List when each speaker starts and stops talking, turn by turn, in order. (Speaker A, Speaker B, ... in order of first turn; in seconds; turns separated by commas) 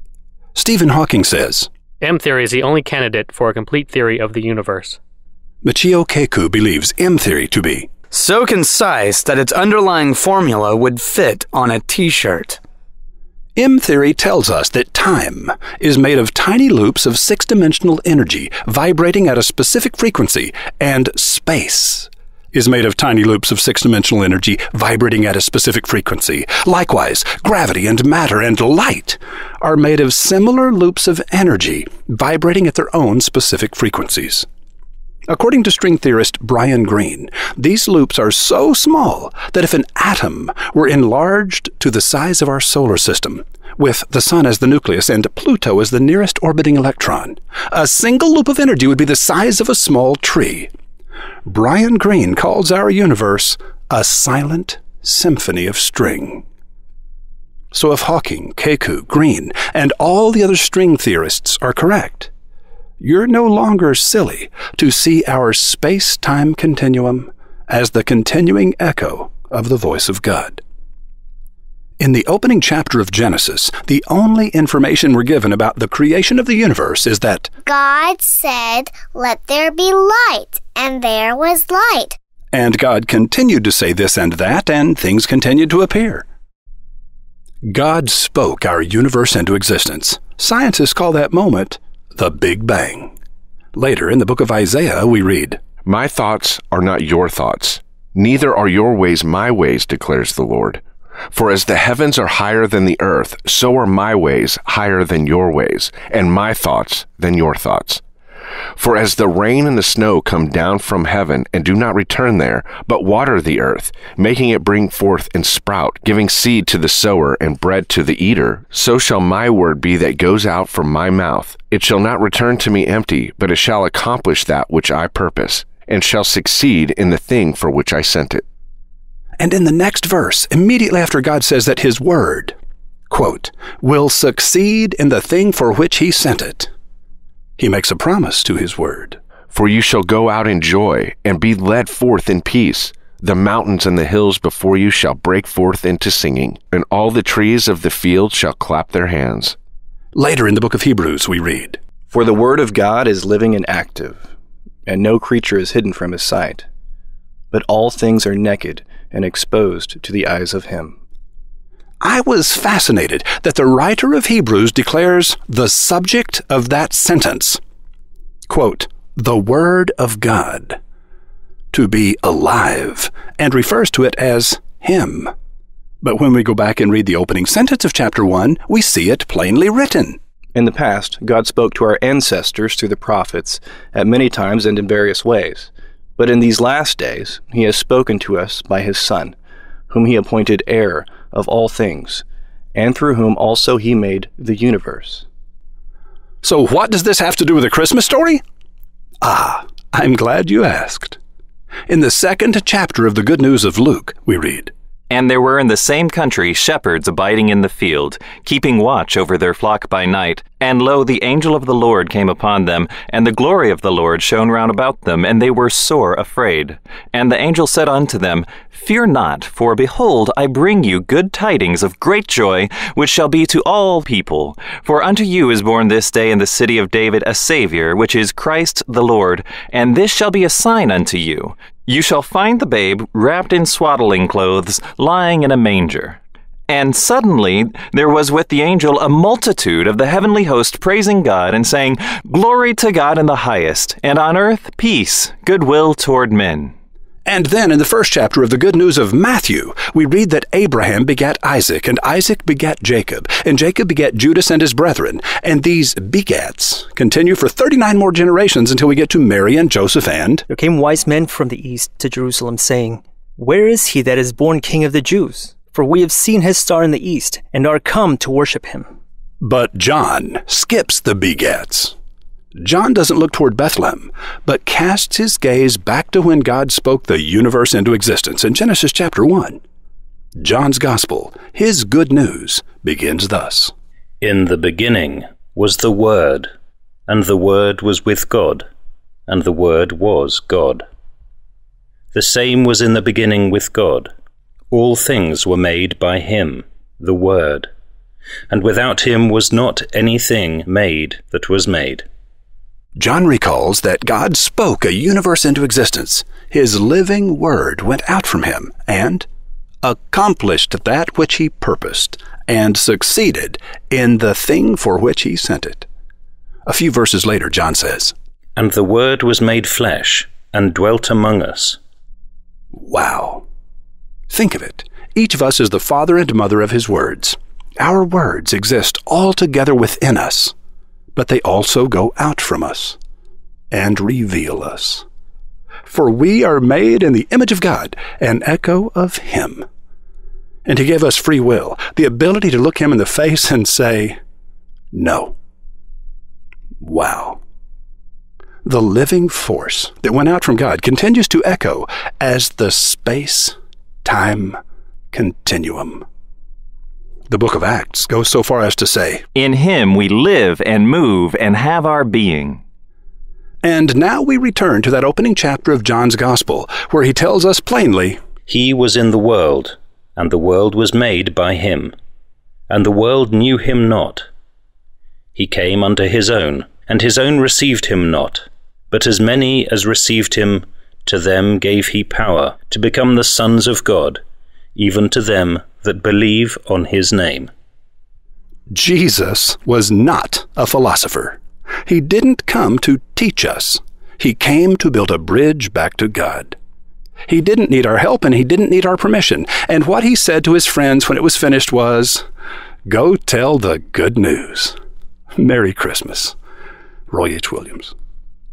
Speaker A: 0.6-1.7, Speaker B: 2.0-5.0, Speaker A: 5.6-7.9, Speaker C: 8.1-12.6, Speaker A: 13.6-34.5, Speaker A: 35.3-50.7, Speaker A: 51.5-56.5, Speaker A: 57.7-62.3, Speaker A: 63.0-70.6, Speaker A: 72.0-77.5, Speaker D: 77.7-82.2, Speaker A: 82.5-86.3, Speaker A: 87.7-93.2, Speaker A: 93.8-95.6, Speaker E: 95.8-100.8, Speaker E: 101.3-108.0, Speaker E: 108.8-128.4, Speaker A: 129.4-132.6, Speaker A: 133.1-136.7, Speaker A: 137.6-139.2, Speaker E: 139.5-149.6, Speaker A: 150.2-151.8, Speaker F: 152.1-154.3, Speaker F: 154.9-156.7, Speaker F: 157.5-161.0, Speaker A: 162.0-167.6, Speaker A: 168.5-170.8, Speaker A: 171.7-175.3, Speaker A: 176.0-180.2, Speaker F: 180.6-189.4, Speaker F: 189.9-192.2, Speaker F: 192.8-195.2, Speaker A: 196.4-198.4, Speaker A: 199.2-201.2, Speaker A: 201.9-204.7, Speaker G: 205.1-246.7, Speaker A: 247.3-260.4, Speaker H: 260.5-268.9, Speaker A: 269.4-272.0, Speaker A: 272.6-279.6, Speaker A: 280.4-283.7, Speaker I: 284.2-286.5, Speaker I: 287.1-288.7, Speaker I: 289.3-290.8, Speaker I: 292.1-294.1, Speaker I: 294.7-297.7, Speaker I: 298.5-302.1, Speaker A: 303.0-309.3, Speaker A: 309.8-315.9, Speaker A: 316.7-318.1, Speaker I: 318.6-321.8, Speaker A: 322.8-323.4, Speaker A: 324.3-330.5, Speaker A: 331.1-333.0, Speaker A: 333.7-335.1, Speaker A: 335.9-339.7, Speaker A: 340.6-344.2, Speaker A: 344.9-345.4, Speaker A: 346.8-347.4, Speaker A: 348.6-354.6, Speaker A: 355.1-356.1, Speaker A: 357.3-359.2, Speaker G: 359.4-362.6, Speaker A: 363.6-368.2, Speaker I: 368.5-371.9, Speaker I: 372.7-374.3, Speaker I: 375.4-384.2, Speaker I: 384.8-387.5, Speaker A: 388.7-396.6, Speaker A: 397.3-402.2, Speaker A: 402.9-404.8, Speaker A: 405.4-406.4, Speaker A: 407.1-407.9